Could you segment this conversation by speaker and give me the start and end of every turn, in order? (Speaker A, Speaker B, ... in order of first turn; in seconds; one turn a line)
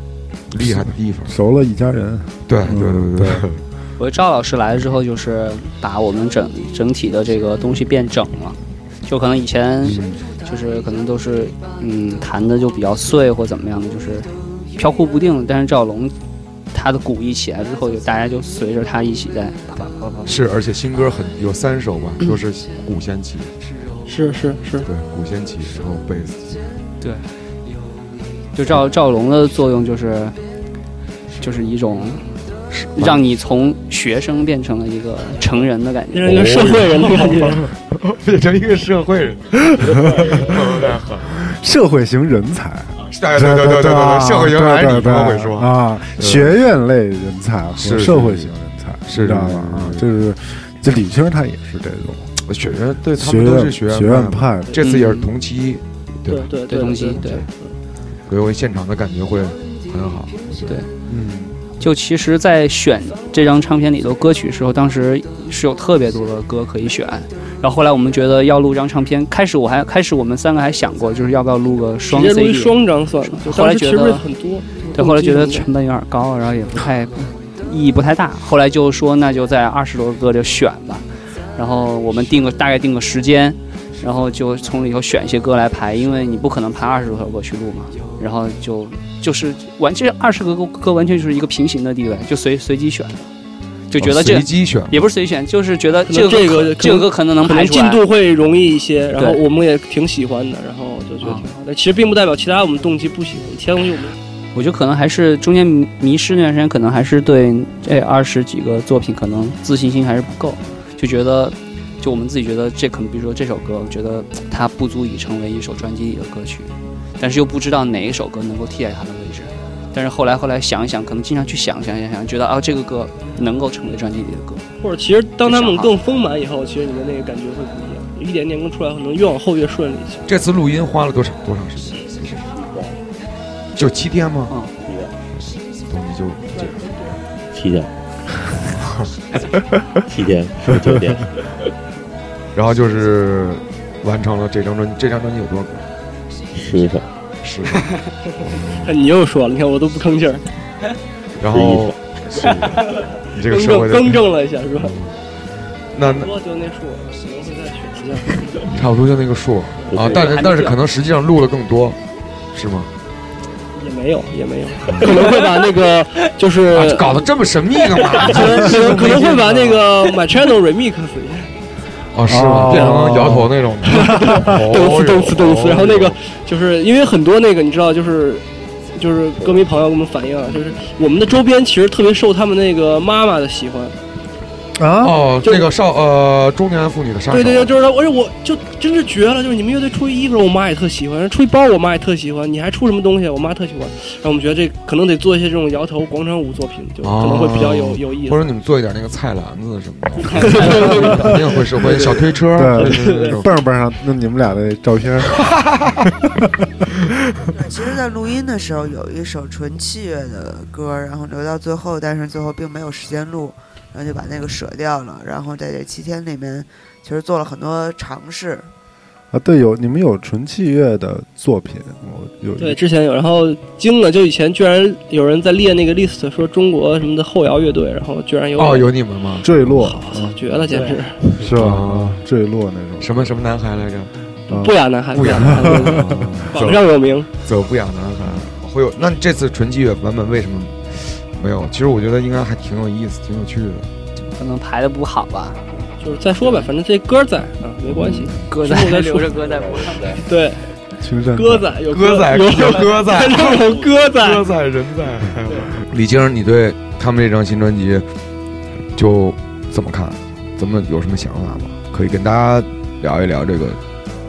Speaker A: 0.5-1.4
Speaker B: 0.6-3.5
Speaker A: 2.5-3.6
Speaker C: 4.0-16.1
Speaker B: 9.8-10.2
Speaker C: 16.7-20.3
Speaker A: 20.2-23.5
Speaker D: 24.1-24.9
Speaker A: 24.8-26.6
Speaker C: 27.0-27.3
Speaker C: 28.5-30.4
Speaker C: 31.4-32.2
Speaker A: 32.7-33.2
Speaker C: 32.9-36.4
Speaker D: 36.1-37.6
Speaker A: 36.2-41.3
Speaker B: 39.9-40.6
Speaker B: 41.3-52.3
Speaker A: 43.0-46.5
Speaker A: 47.8-48.5
Speaker A: 49.0-50.0
Speaker A: 52.4-56.5
Speaker B: 53.1-54.8
Speaker C: 54.8-55.3
Speaker D: 56.3-57.8
Speaker C: 56.7-57.5
Speaker A: 58.3-60.8
Speaker B: 61.1-61.6
Speaker C: 61.8-74.2
Speaker D: 72.1-75.7
Speaker C: 74.9-93.3
Speaker C: 93.9-98.0
Speaker A: 94.0-95.0
Speaker D: 96.1-104.1
Speaker C: 101.2-101.5
Speaker C: 104.5-124.6
Speaker D: 124.8-130.2
Speaker C: 125.4-125.9
Speaker A: 130.2-132.4
Speaker E: 132.5-133.0
Speaker A: 133.7-134.5
Speaker E: 134.8-135.1
Speaker A: 135.8-136.7
Speaker D: 136.6-137.1
Speaker E: 137.5-137.9
Speaker A: 138.8-139.1
Speaker E: 140.1-141.7
Speaker A: 142.5-145.8
Speaker E: 146.5-147.1
Speaker A: 147.4-148.9
Speaker D: 148.8-150.4
Speaker A: 151.4-154.2
Speaker E: 151.5-152.6
Speaker D: 153.4-154.9
Speaker A: 154.7-155.1
Speaker A: 155.9-156.3
Speaker D: 156.0-158.7
Speaker A: 158.7-162.0
Speaker E: 159.9-160.4
Speaker C: 160.3-160.8
Speaker A: 162.5-162.9
Speaker D: 163.7-167.2
Speaker A: 164.9-165.2
Speaker A: 166.7-169.4
Speaker D: 168.1-171.5
Speaker C: 169.2-169.7
Speaker A: 172.1-176.2
Speaker B: 172.3-174.4
Speaker D: 173.9-184.0
Speaker B: 184.8-185.2
Speaker A: 185.0-187.7
Speaker D: 185.4-185.7
Speaker D: 187.3-198.5
Speaker A: 197.0-203.5
Speaker D: 200.3-203.4
Speaker B: 202.5-205.4
Speaker A: 205.3-206.0
Speaker B: 206.1-206.5
Speaker F: 207.5-218.7
Speaker B: 219.3-222.8
Speaker D: 222.6-229.0
Speaker A: 228.6-229.4
Speaker B: 229.4-230.4
Speaker D: 229.6-231.2
Speaker B: 231.4-233.3
Speaker A: 231.4-232.2
Speaker A: 233.0-234.1
Speaker B: 234.5-236.6
Speaker D: 234.5-237.3
Speaker A: 235.1-236.8
Speaker A: 237.4-243.9
Speaker C: 244.3-245.6
Speaker D: 246.0-249.4
Speaker C: 246.4-246.7
Speaker C: 248.5-250.0
Speaker E: 249.3-250.2
Speaker D: 250.1-250.7
Speaker B: 251.0-251.7
Speaker D: 251.3-254.5
Speaker A: 251.9-258.1
Speaker E: 253.7-254.0
Speaker A: 258.9-263.8